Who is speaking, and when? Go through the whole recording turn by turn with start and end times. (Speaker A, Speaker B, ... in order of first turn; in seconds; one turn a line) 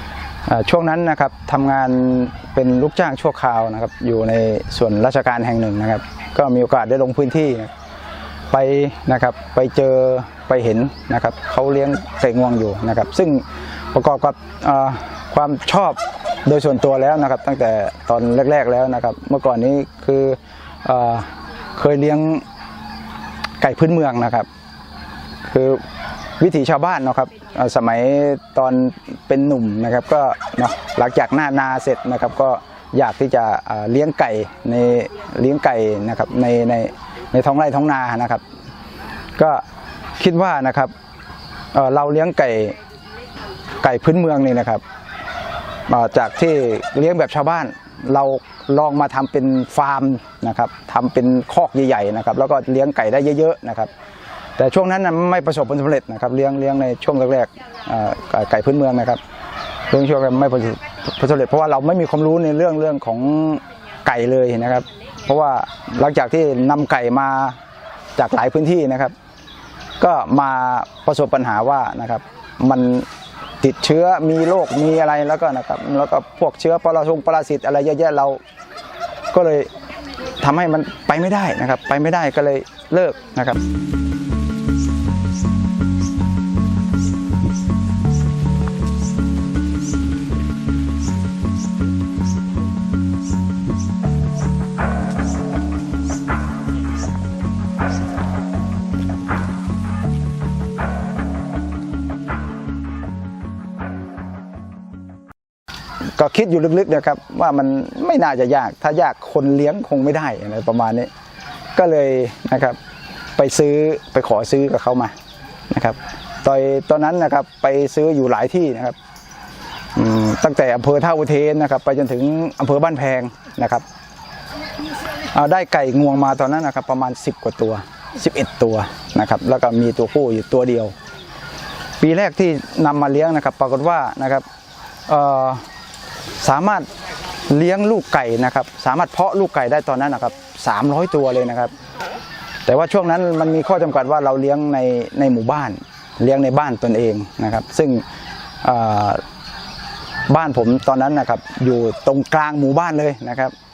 Speaker A: 0.5-7.7
Speaker A: 8.5-22.4
Speaker A: 23.6-24.5
Speaker A: 25.5-25.8
Speaker A: 26.4-38.4
Speaker A: 39.4-39.6
Speaker A: 40.2-40.9
Speaker A: 41.7-42.8
Speaker A: 43.8-44.8
Speaker A: 45.9-53.9
Speaker A: 54.6-59.2
Speaker A: 59.9-67.6
Speaker A: 68.2-69.1
Speaker A: 70.0-73.1
Speaker A: 73.6-78.4
Speaker A: 79.3-79.7
Speaker A: 80.4-83.6
Speaker A: 106.2-111.1
Speaker A: 111.8-112.8
Speaker A: 113.4-115.1
Speaker A: 115.7-119.0
Speaker A: 120.0-123.8
Speaker A: 125.3-130.9
Speaker A: 132.0-134.4
Speaker A: 135.1-135.6
Speaker A: 136.4-136.8
Speaker A: 137.5-141.7
Speaker A: 142.7-148.0
Speaker A: 148.6-149.2
Speaker A: 150.3-153.5